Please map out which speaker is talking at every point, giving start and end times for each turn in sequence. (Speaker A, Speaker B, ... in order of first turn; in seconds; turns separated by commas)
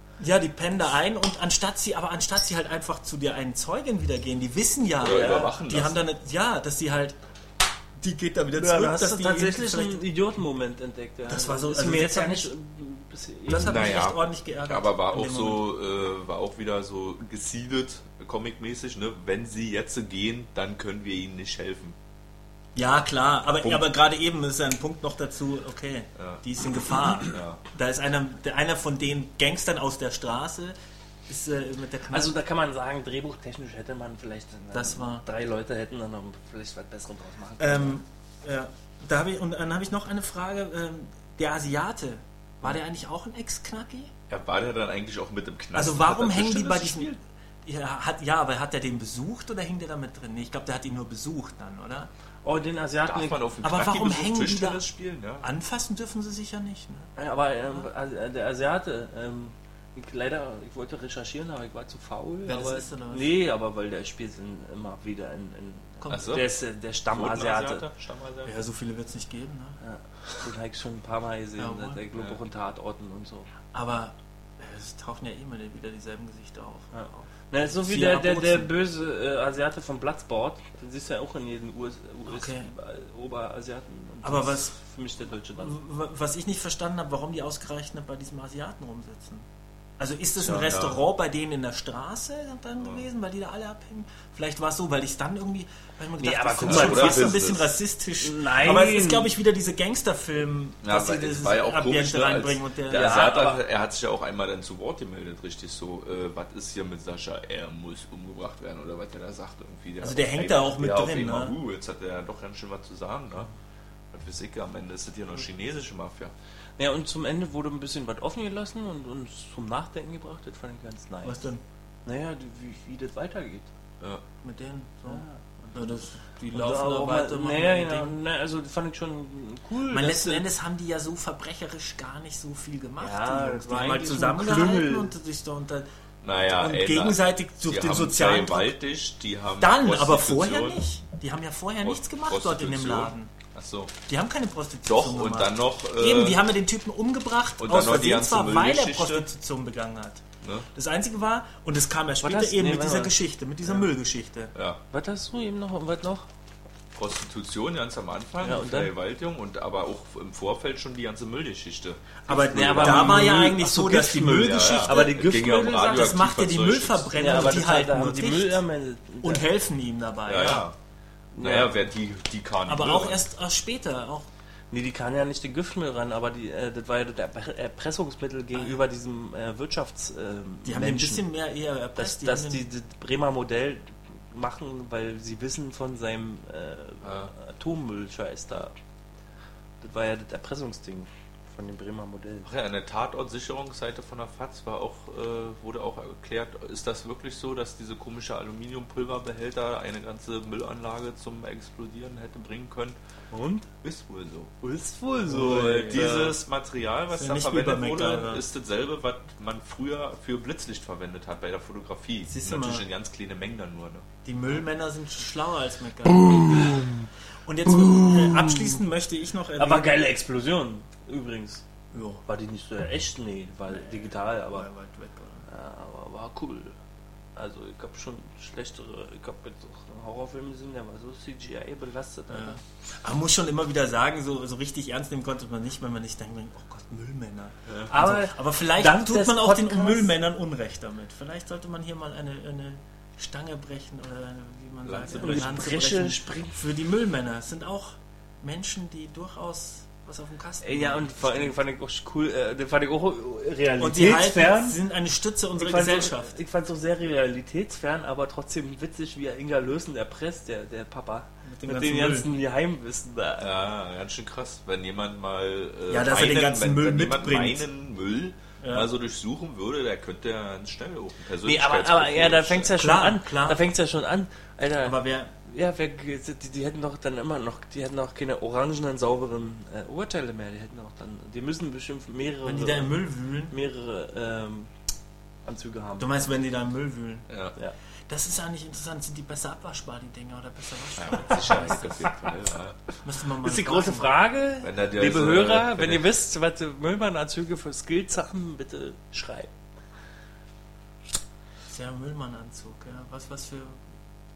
Speaker A: 0.2-7.2, Speaker B: 5.0-6.0, Speaker A: 8.0-10.0, Speaker C: 8.6-14.0, Speaker A: 11.3-12.5, Speaker A: 13.4-15.6, Speaker B: 13.6-21.9, Speaker A: 22.7-30.7, Speaker B: 23.6-23.9, Speaker B: 26.1-26.4, Speaker B: 27.3-27.6, Speaker A: 31.3-32.4, Speaker C: 32.1-38.0, Speaker A: 34.7-35.2, Speaker A: 37.6-44.1, Speaker B: 44.3-47.2, Speaker A: 45.7-47.1, Speaker A: 47.6-52.1, Speaker C: 52.4-53.4, Speaker B: 53.0-55.5, Speaker A: 53.6-54.8, Speaker A: 55.4-57.1, Speaker C: 57.2-67.8, Speaker A: 62.5-63.3, Speaker A: 66.0-66.4, Speaker B: 66.1-66.5, Speaker B: 67.1-68.6, Speaker A: 68.4-69.8, Speaker C: 69.8-73.5, Speaker A: 71.6-72.0, Speaker B: 72.1-72.4, Speaker A: 73.7-77.2, Speaker C: 76.9-85.8, Speaker A: 77.8-78.7, Speaker A: 82.2-82.7, Speaker A: 84.2-84.7, Speaker A: 85.6-89.5, Speaker A: 90.0-103.3, Speaker B: 90.4-91.0, Speaker B: 92.8-93.0, Speaker C: 96.2-97.5, Speaker B: 96.6-97.7, Speaker C: 98.2-99.3, Speaker B: 100.8-113.5, Speaker C: 102.9-103.6, Speaker A: 110.0-111.5, Speaker B: 114.1-116.3, Speaker C: 116.8-121.4, Speaker A: 121.2-121.6, Speaker C: 122.0-123.7, Speaker A: 124.4-128.2, Speaker C: 125.1-130.4, Speaker A: 129.9-135.9, Speaker C: 133.0-135.1, Speaker B: 136.2-140.8, Speaker A: 136.6-138.7, Speaker A: 139.6-143.3, Speaker B: 141.8-143.9, Speaker A: 144.1-154.5, Speaker B: 144.8-146.4, Speaker B: 147.6-149.3, Speaker B: 150.4-150.7, Speaker C: 152.2-153.2, Speaker B: 154.5-154.8, Speaker C: 154.9-156.3, Speaker B: 156.9-163.5, Speaker C: 158.4-158.9, Speaker A: 162.2-168.6, Speaker C: 162.5-166.0, Speaker B: 164.3-167.5, Speaker C: 167.2-169.4, Speaker A: 169.2-170.7, Speaker B: 170.3-170.7, Speaker C: 171.3-171.8, Speaker B: 171.4-173.2, Speaker A: 172.7-174.3, Speaker C: 174.7-181.2, Speaker A: 178.5-178.8, Speaker A: 180.6-182.7, Speaker C: 182.0-188.7, Speaker B: 187.0-187.3, Speaker C: 189.8-192.5, Speaker B: 192.4-202.9, Speaker C: 203.3-203.7, Speaker B: 203.8-204.5, Speaker C: 204.6-206.3, Speaker A: 205.3-206.3, Speaker B: 205.3-214.1, Speaker A: 207.1-208.4, Speaker A: 212.2-212.8, Speaker A: 214.2-216.9, Speaker C: 216.1-217.1, Speaker A: 217.4-220.1, Speaker C: 217.6-218.8, Speaker C: 219.6-221.6, Speaker A: 221.9-222.2, Speaker C: 222.2-224.7, Speaker A: 224.5-225.5, Speaker C: 225.5-226.7, Speaker C: 227.3-232.6, Speaker A: 232.3-251.6, Speaker B: 237.7-237.9, Speaker C: 237.9-240.1, Speaker B: 244.8-245.5, Speaker C: 245.1-246.6, Speaker C: 250.6-254.8, Speaker A: 253.8-256.4, Speaker C: 255.6-263.5, Speaker A: 261.5-262.3, Speaker B: 263.4-272.8, Speaker A: 265.9-267.6, Speaker A: 268.6-268.9, Speaker C: 271.4-284.7, Speaker A: 272.8-273.6, Speaker A: 274.8-275.3, Speaker A: 282.4-283.5, Speaker C: 285.4-286.3, Speaker A: 286.0-287.3, Speaker B: 287.3-287.5, Speaker A: 288.1-292.1, Speaker B: 290.9-292.8, Speaker A: 293.0-294.1, Speaker C: 293.4-299.5, Speaker B: 294.6-296.1, Speaker A: 301.7-303.8